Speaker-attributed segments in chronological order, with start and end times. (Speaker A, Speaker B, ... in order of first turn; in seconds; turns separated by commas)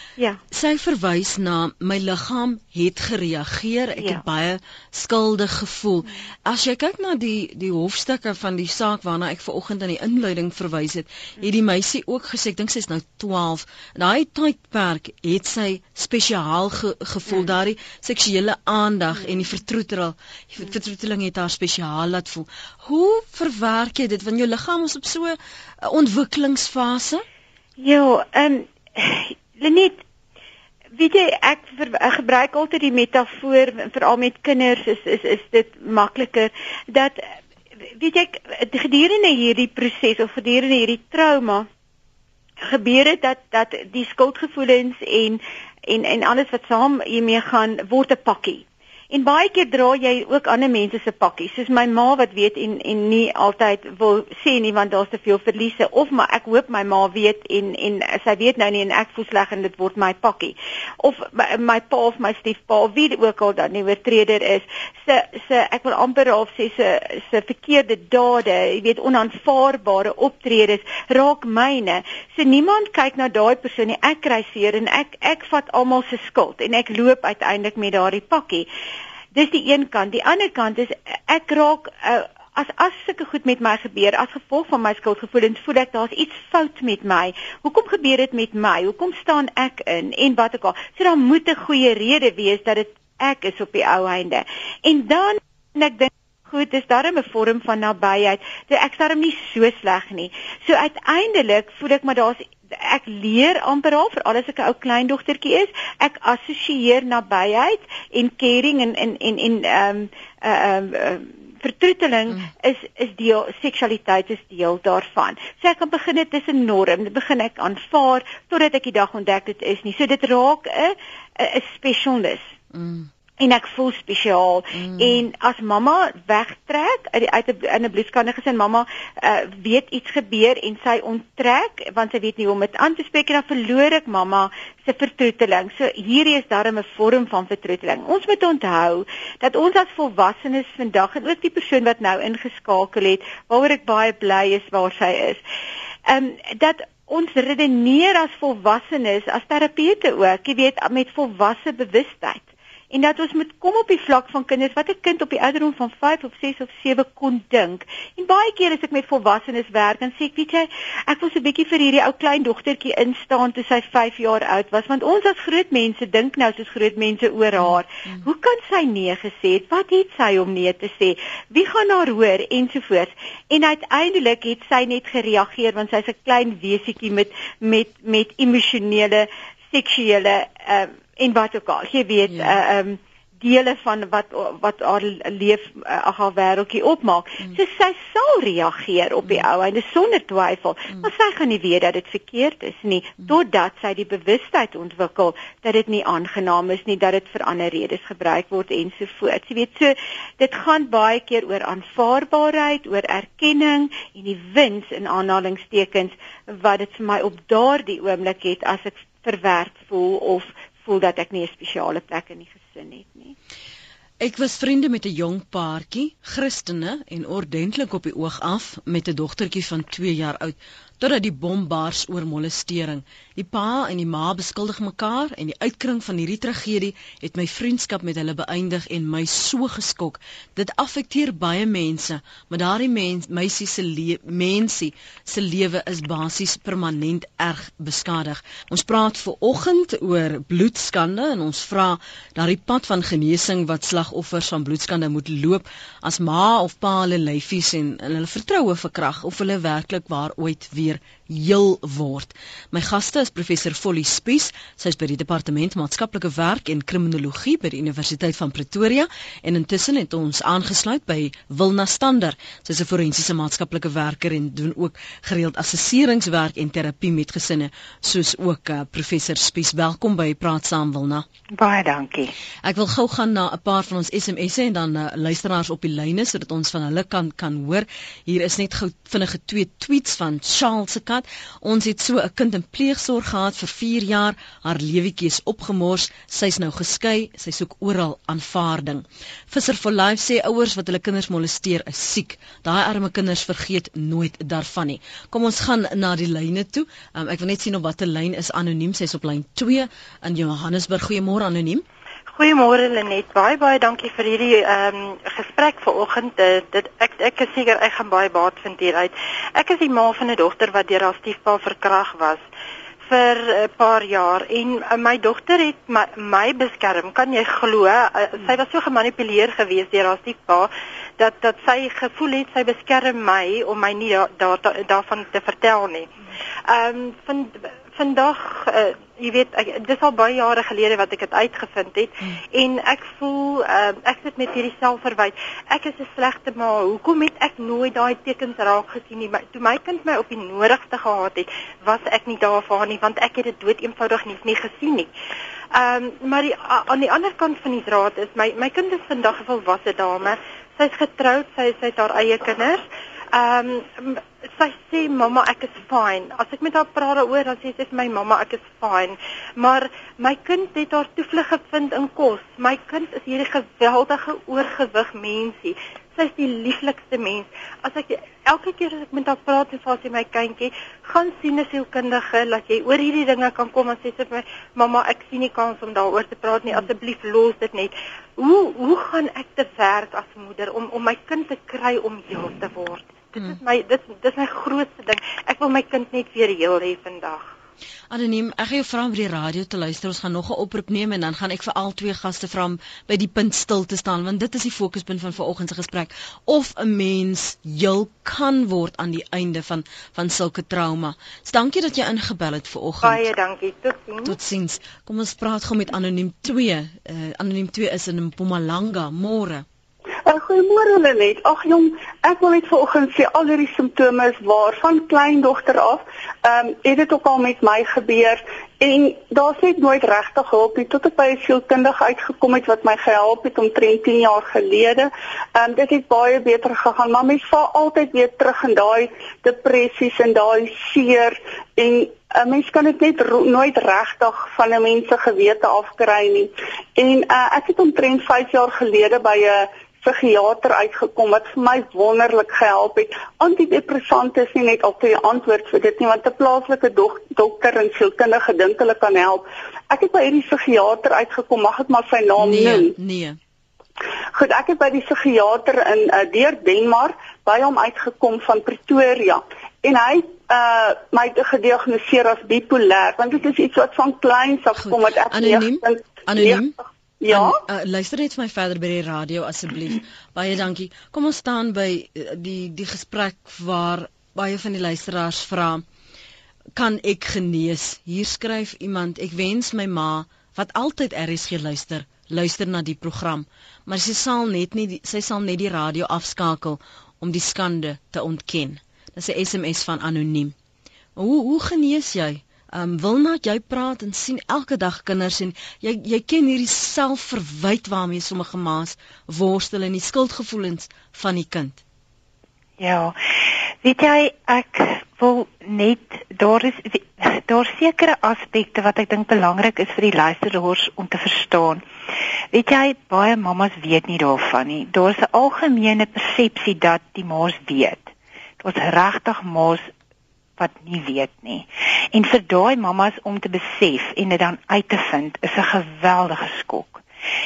Speaker A: 0.5-27.2, Speaker B: 27.8-30.0, Speaker B: 30.9-37.2, Speaker B: 38.0-41.7, Speaker B: 42.6-78.7, Speaker B: 79.3-122.5, Speaker A: 122.7-123.1, Speaker B: 123.4-145.4, Speaker A: 124.8-125.2, Speaker B: 146.1-213.3, Speaker A: 214.2-271.3, Speaker C: 271.5-272.3, Speaker A: 272.6-301.9, Speaker D: 302.3-312.4, Speaker D: 313.0-326.1, Speaker D: 326.7-345.1, Speaker D: 345.7-387.5, Speaker A: 388.1-403.3, Speaker D: 403.0-404.4, Speaker A: 404.2-409.6, Speaker E: 410.2-453.0, Speaker A: 452.4-453.4, Speaker E: 454.3-466.6, Speaker A: 464.8-466.8, Speaker E: 467.2-467.6, Speaker A: 467.3-475.8, Speaker A: 476.8-490.5, Speaker A: 491.2-501.8, Speaker C: 502.8-503.2, Speaker C: 503.8-511.8, Speaker C: 512.5-519.9, Speaker C: 520.6-527.0